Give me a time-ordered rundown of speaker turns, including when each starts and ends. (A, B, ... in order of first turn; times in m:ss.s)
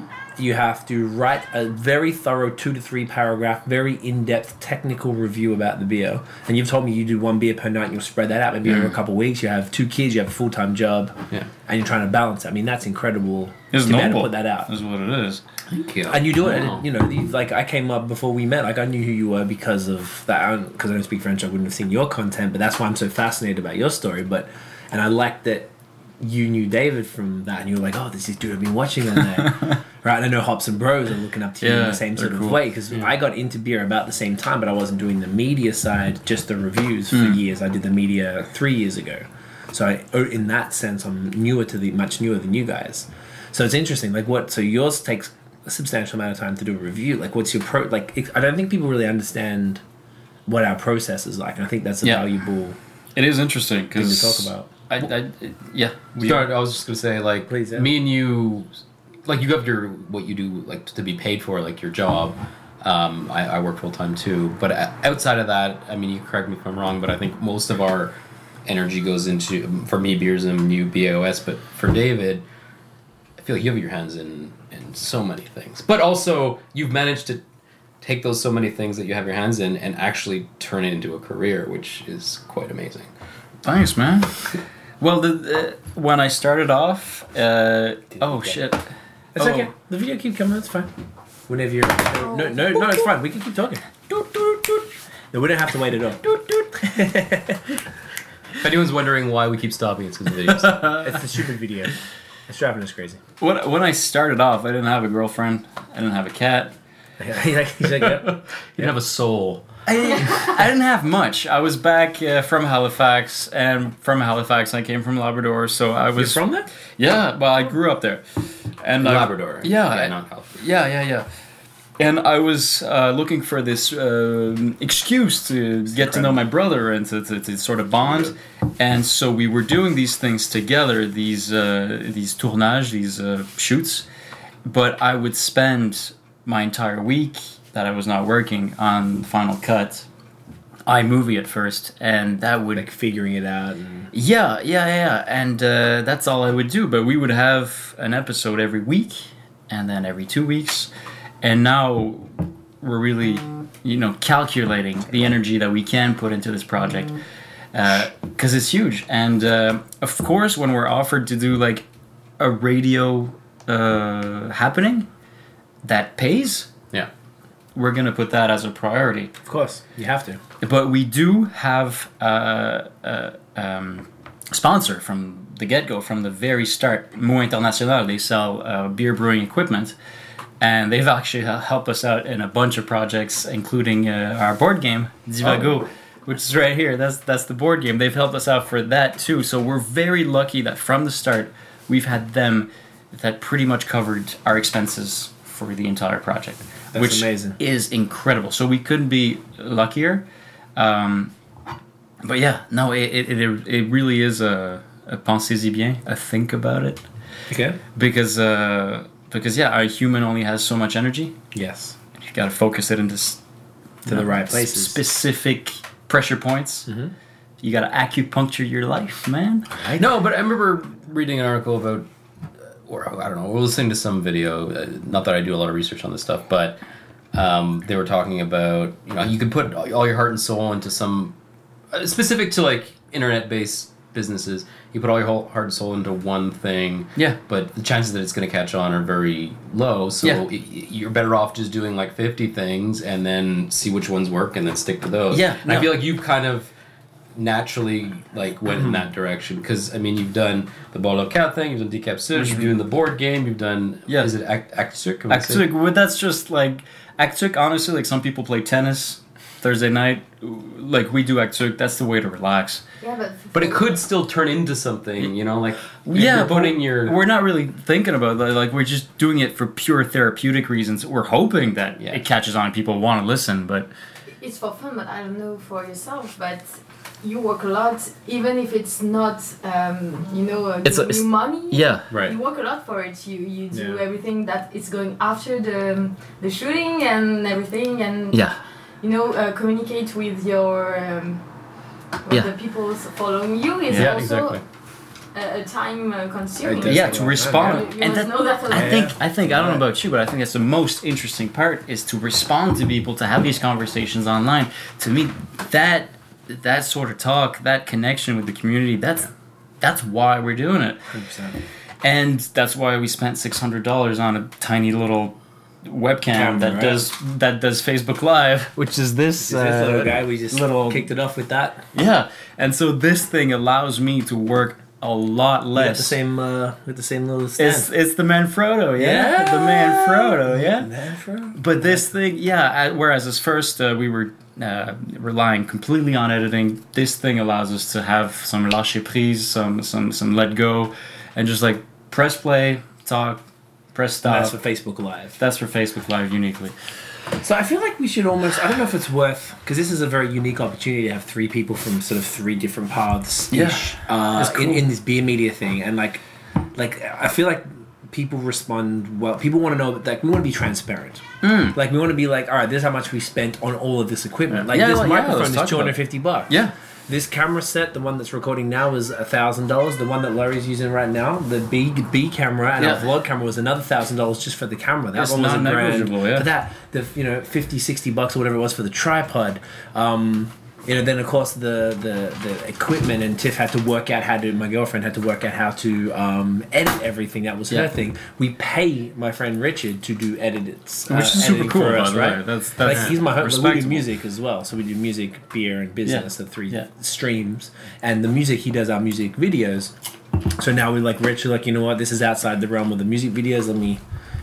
0:00.4-0:14.7 A
0:13.7-0:15.4 B
0:15.7-0:16.8 C
0:16.1-0:49.8 A
0:31.6-0:32.7 B
0:37.1-0:37.4 B
0:50.5-0:52.8 A
0:53.2-0:56.5 B
0:53.9-0:54.7 A
0:56.2-0:58.7 C
0:57.5-0:57.9 A
0:59.2-1:12.4 C
1:13.4-1:17.4 C
1:18.0-1:23.1 C
1:23.6-1:28.8 B
1:29.3-1:30.9 A
1:29.4-1:29.7 B
1:31.5-1:37.8 A
1:32.2-1:32.8 D
1:38.6-1:40.9 C
1:40.5-1:41.2 B
1:41.0-1:43.2 A
1:43.4-1:46.7 B
1:47.2-1:48.9 A
1:48.8-1:50.3 C
1:49.8-1:58.2 B
1:56.2-1:56.7 A
1:58.8-2:01.2 B
1:59.0-2:00.6 C
2:02.0-2:14.0 B
2:06.0-2:06.4 A
2:14.6-2:20.1 B
2:20.8-2:22.9 B
2:22.7-2:24.1 A
2:24.1-2:30.9 B
2:31.4-2:37.2 B
2:37.7-2:41.8 B
2:42.4-2:45.1 B
2:45.8-2:46.7 B
2:47.7-2:49.3 B
2:49.4-2:50.4 A
2:50.6-2:59.9 B
3:00.6-3:20.2 B
3:16.9-3:17.6 A
3:20.8-3:21.3 B
3:22.2-3:27.0 B
3:27.5-3:27.8 A
3:27.9-3:31.3 B
3:31.5-3:32.0 A
3:32.2-3:33.4 B
3:34.0-3:36.9 B
3:34.0-3:35.0 A
3:36.9-3:37.1 A
3:37.6-3:39.7 B
3:39.7-3:40.1 A
3:40.0-3:42.1 C
3:42.7-3:46.8 C
3:47.3-3:51.3 C
3:51.9-4:06.7 C
4:05.3-4:06.0 B
4:07.3-4:15.7 C
4:12.4-4:12.6 B
4:15.3-4:22.8 B
4:23.0-4:24.0 D
4:23.5-4:27.2 C
4:26.0-4:33.9 B
4:34.4-4:51.4 D
4:40.8-4:42.1 B
4:42.1-4:42.4 C
4:43.7-4:44.0 A
4:52.2-4:54.6 D
4:53.9-4:54.2 B
4:53.9-4:54.6 C
4:55.3-4:59.2 D
4:56.6-4:57.9 A
4:56.8-5:09.3 B
4:58.7-4:59.8 A
5:09.8-5:11.1 B
5:11.1-5:11.6 A
5:12.0-5:21.1 B
5:16.3-5:17.0 A
5:19.4-5:21.8 A
5:21.9-5:26.2 B
5:25.7-5:27.9 A
5:27.6-5:30.9 B
5:29.0-5:32.1 A
5:31.6-5:43.4 B
5:43.9-5:44.5 B
5:44.2-5:45.4 A
5:45.4-5:46.7 B
5:47.4-5:56.2 A
5:53.5-5:54.8 B
5:56.7-6:06.5 A
6:01.4-6:01.8 B
6:04.5-6:06.0 B
6:07.1-6:39.9 A
6:15.1-6:16.5 B
6:31.1-6:34.0 B
6:36.0-6:36.9 B
6:40.6-6:44.0 A